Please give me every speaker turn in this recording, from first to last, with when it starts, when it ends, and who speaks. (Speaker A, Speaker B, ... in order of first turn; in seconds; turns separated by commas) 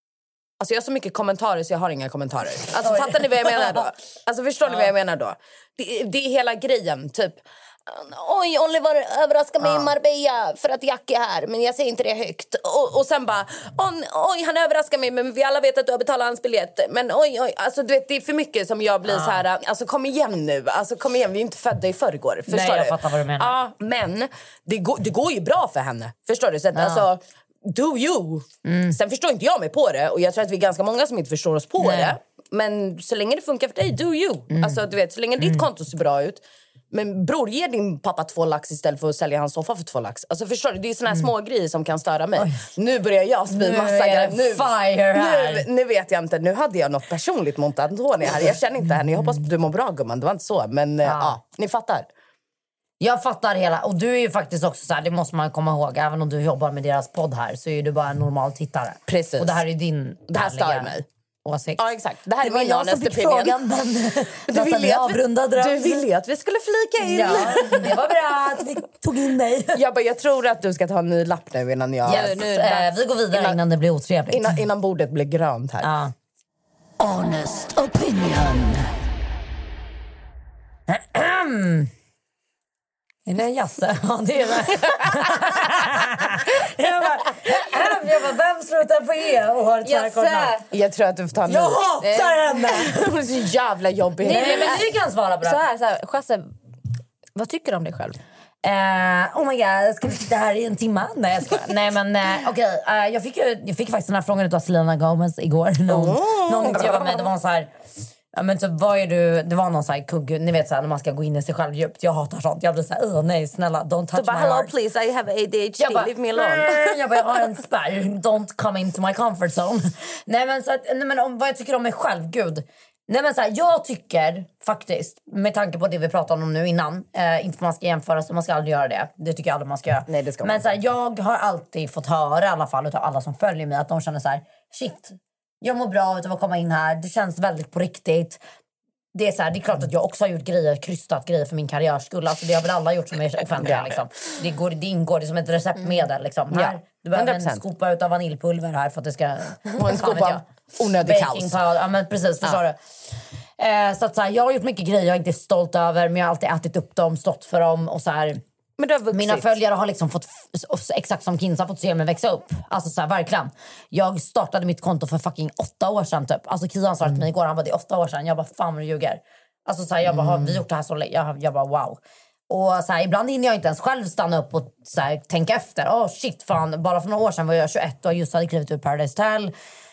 Speaker A: 0.6-52.1, Speaker B: 2.7-3.9, Speaker B: 4.6-4.9, Speaker B: 9.6-9.9, Speaker B: 19.0-19.4, Speaker B: 22.5-23.6, Speaker B: 26.7-27.1, Speaker B: 28.6-28.9, Speaker B: 31.8-32.2, Speaker B: 34.5-34.8, Speaker B: 35.4-35.6, Speaker B: 42.4-42.7, Speaker B: 43.5-45.6, Speaker B: 51.0-51.4, Speaker B: 53.0-60.9, Speaker A: 59.1-59.6, Speaker A: 60.3-61.0, Speaker B: 61.4-61.9, Speaker A: 61.8-63.6, Speaker B: 62.4-66.1, Speaker A: 64.5-68.0, Speaker B: 67.0-69.8, Speaker A: 69.7-73.6, Speaker B: 72.0-74.6, Speaker A: 74.3-75.9, Speaker B: 75.8-76.1, Speaker B: 77.0-78.9, Speaker B: 80.9-81.9, Speaker B: 83.2-90.5, Speaker C: 89.8-90.6, Speaker A: 90.7-94.8, Speaker B: 91.5-93.1, Speaker C: 94.2-94.8, Speaker B: 94.2-95.6, Speaker C: 95.4-96.5, Speaker C: 97.3-98.2, Speaker B: 98.6-107.7, Speaker A: 105.9-107.2, Speaker B: 108.3-114.7, Speaker A: 114.1-117.0, Speaker B: 115.8-138.4, Speaker A: 130.1-130.6, Speaker B: 139.1-152.8, Speaker A: 143.6-143.9, Speaker A: 146.5-147.6, Speaker A: 149.8-151.5, Speaker B: 153.6-158.4, Speaker A: 158.8-159.5, Speaker B: 159.1-179.5, Speaker A: 170.1-170.6